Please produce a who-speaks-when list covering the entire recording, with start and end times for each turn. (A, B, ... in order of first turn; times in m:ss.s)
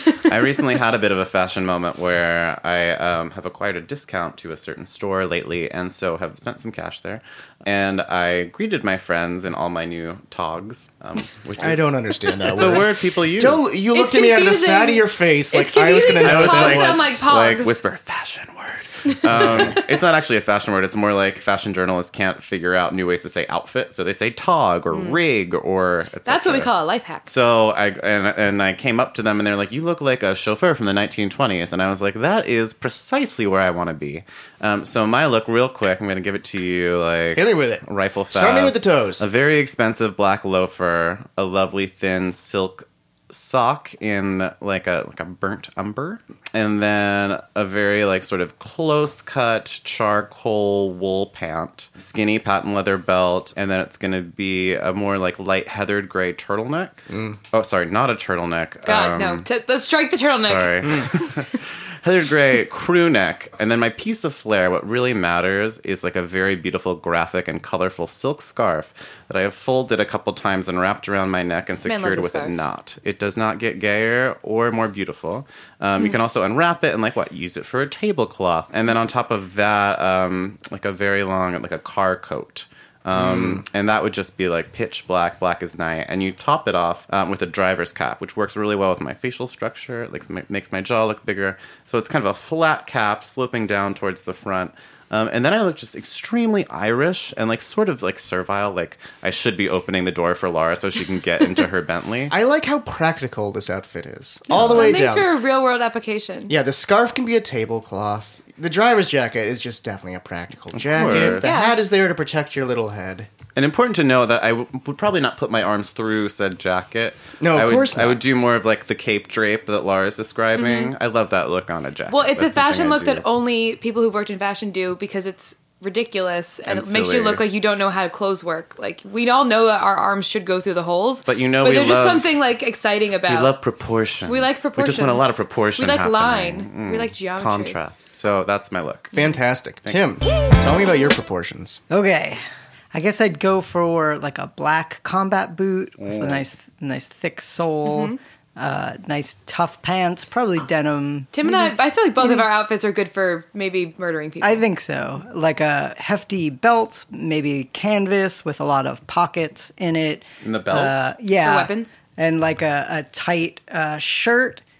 0:00.3-0:11.9 A
0:11.6-0:17.0 B
0:12.4-0:13.7 A
0:13.9-0:17.8 C
0:16.2-0:26.7 A
0:24.9-0:25.2 C
0:26.3-0:27.3 C
0:27.3-0:59.5 A
0:37.4-0:39.3 B
0:57.1-0:57.4 B
0:58.9-1:01.3 C
1:00.4-1:42.3 A
1:11.8-1:12.6 C
1:23.1-1:23.6 B
1:42.3-1:45.3 B
1:44.5-1:45.0 A
1:44.6-1:46.5 C
1:46.5-1:53.3 B
1:50.8-1:51.5 A
1:51.0-1:51.8 C
1:53.6-2:03.2 A
1:57.4-1:58.2 B
2:00.6-2:00.9 C
2:02.1-2:13.5 C
2:06.7-2:07.4 A
2:11.3-2:12.4 A
2:13.3-2:19.1 A
2:14.3-2:17.8 C
2:19.1-2:21.8 B
2:19.8-2:20.2 A
2:21.9-2:22.4 D
2:22.9-2:32.5 D
2:26.0-2:26.4 A
2:27.8-2:28.2 C
2:31.3-2:34.6 C
2:34.4-2:44.6 D
2:40.4-2:41.1 A
2:41.4-2:42.0 C